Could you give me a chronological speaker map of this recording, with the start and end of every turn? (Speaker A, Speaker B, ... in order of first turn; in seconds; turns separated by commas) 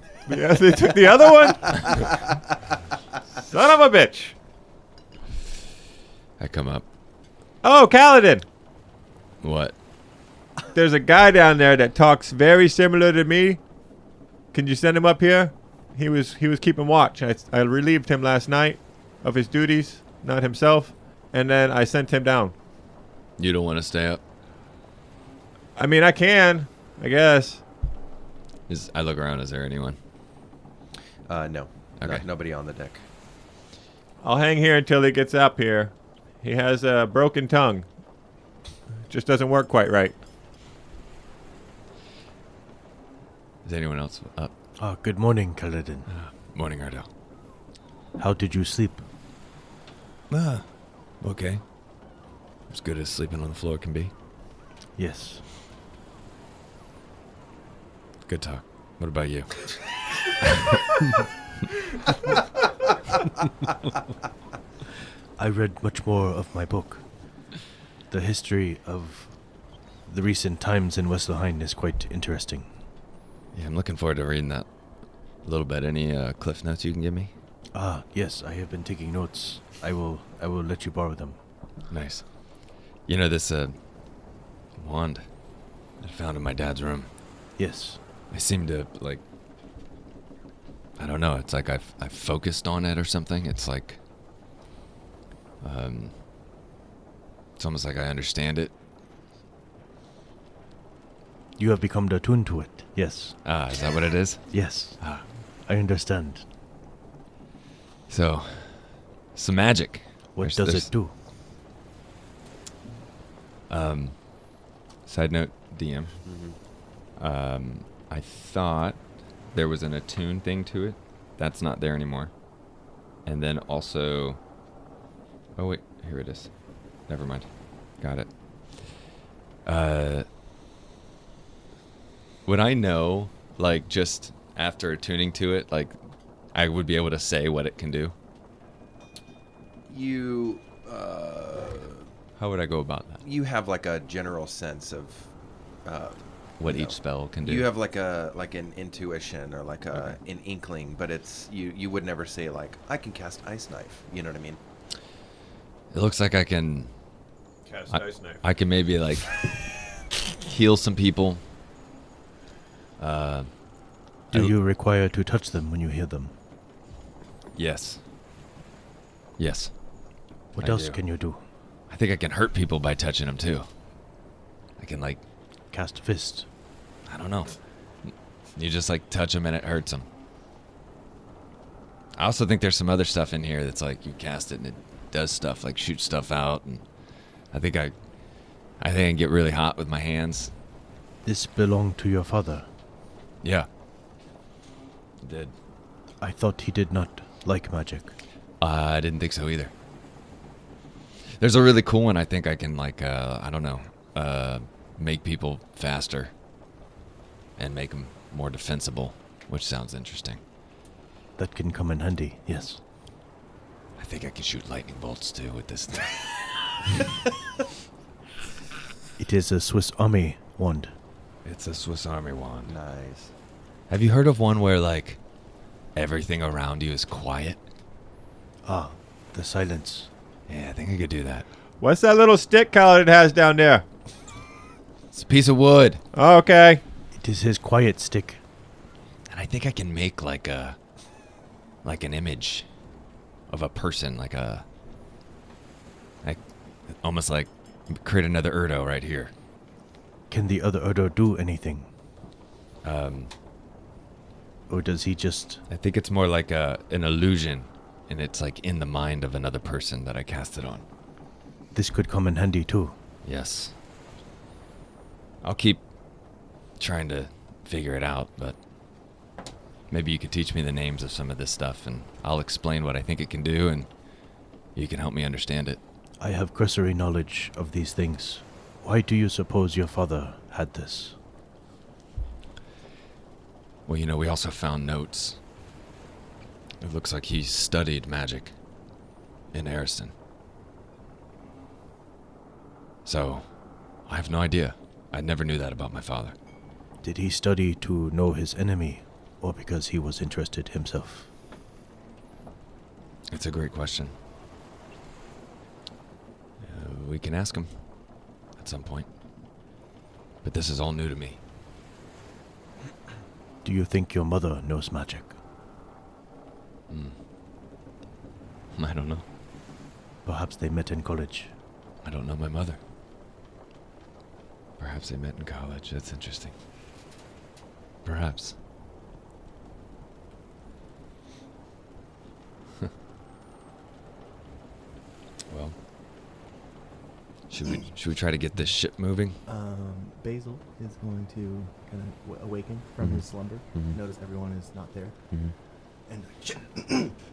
Speaker A: 0.3-1.9, Speaker B: 1.5-2.1, Speaker A: 3.4-4.3, Speaker C: 6.4-6.8, Speaker A: 7.6-8.4, Speaker C: 9.4-9.7, Speaker A: 10.7-13.6, Speaker A: 14.5-22.5, Speaker C: 23.4-24.2, Speaker A: 25.8-27.6, Speaker C: 28.7-30.0, Speaker B: 31.3-33.0, Speaker A: 34.2-37.9, Speaker A: 39.1-40.1, Speaker C: 43.6-44.5, Speaker D: 44.8-46.1, Speaker C: 46.1-47.1, Speaker D: 48.2-49.0, Speaker C: 50.3-50.6, Speaker C: 51.2-51.6, Speaker C: 52.7-54.1, Speaker D: 55.0-55.4, Speaker C: 58.3-60.9, Speaker D: 65.4-67.0, Speaker D: 68.1-69.3, Speaker D: 70.1-72.7, Speaker C: 73.5-74.7, Speaker C: 75.4-77.3, Speaker D: 77.7-81.4, Speaker C: 81.9-82.2, Speaker C: 83.0-83.7, Speaker C: 84.8-85.2, Speaker C: 86.0-87.1, Speaker D: 87.6-88.0, Speaker C: 88.3-89.2, Speaker C: 91.0-94.0, Speaker C: 95.6-96.1, Speaker C: 97.6-98.7, Speaker D: 101.6-103.4, Speaker C: 103.4-105.2, Speaker D: 104.5-105.0, Speaker D: 105.6-106.4, Speaker C: 108.1-110.9, Speaker D: 110.3-111.1, Speaker C: 113.7-114.3, Speaker C: 115.0-116.2, Speaker B: 116.2-116.6, Speaker C: 117.2-119.0, Speaker C: 119.5-122.3, Speaker C: 123.2-124.4, Speaker C: 125.6-126.5, Speaker C: 127.1-127.5, Speaker C: 128.0-128.9, Speaker C: 129.6-130.2, Speaker C: 132.4-135.9, Speaker C: 136.5-138.1, Speaker B: 139.9-142.0, Speaker C: 142.4-143.2, Speaker B: 143.2-145.3, Speaker B: 145.8-154.6, Speaker C: 146.6-147.7, Speaker C: 155.9-156.9, Speaker A: 157.7-158.4, Speaker C: 157.9-161.4, Speaker C: 163.0-163.5, Speaker D: 164.3-166.3, Speaker C: 167.6-168.0, Speaker C: 169.4-169.7, Speaker D: 170.5-171.4, Speaker C: 170.6-171.0, Speaker C: 171.9-173.7, Speaker C: 174.8-175.2, Speaker D: 175.7-176.5, Speaker C: 177.1-177.6, Speaker C: 178.1-180.1, Speaker C: 182.2-186.8, Speaker C: 187.5-187.9, Speaker C: 188.8-190.5, Speaker D: 191.2-192.7, Speaker C: 193.4-193.7, Speaker C: 195.2-195.5, Speaker D: 196.2-198.1, Speaker C: 198.6-199.7, Speaker C: 201.4-206.3, Speaker C: 207.6-210.4, Speaker D: 211.4-212.8, Speaker C: 214.0-217.1, Speaker D: 219.2-220.9, Speaker C: 221.4-222.8, Speaker B: 222.7-223.3, Speaker C: 223.9-225.2, Speaker C: 225.9-227.6, Speaker D: 228.6-230.1, Speaker C: 230.5-231.5, Speaker A: 231.8-233.8, Speaker C: 235.1-236.0, Speaker A: 236.1-236.8, Speaker D: 237.1-238.4, Speaker C: 239.3-240.8, Speaker C: 241.8-242.6, Speaker C: 243.5-244.6, Speaker C: 246.9-249.3, Speaker D: 250.3-251.9, Speaker C: 252.8-253.3, Speaker D: 254.7-255.6, Speaker C: 255.7-260.8, Speaker D: 261.7-262.9, Speaker C: 263.2-263.7, Speaker C: 265.4-265.8, Speaker C: 266.8-268.6, Speaker C: 269.9-273.9, Speaker C: 274.7-275.8, Speaker D: 276.2-281.1, Speaker C: 283.9-285.4, Speaker C: 286.8-288.5, Speaker C: 289.5-290.1, Speaker C: 293.0-293.4, Speaker C: 294.1-296.3, Speaker D: 297.0-301.3, Speaker C: 303.3-304.1, Speaker C: 306.6-307.7, Speaker C: 308.6-309.1, Speaker C: 310.4-311.4, Speaker D: 313.6-315.3, Speaker C: 316.9-317.1, Speaker C: 318.8-319.2, Speaker D: 320.2-321.5, Speaker C: 322.0-322.8, Speaker C: 324.8-326.5, Speaker C: 328.0-328.5, Speaker C: 335.5-335.7, Speaker C: 337.5-339.4, Speaker E: 339.5-345.1, Speaker E: 346.1-347.1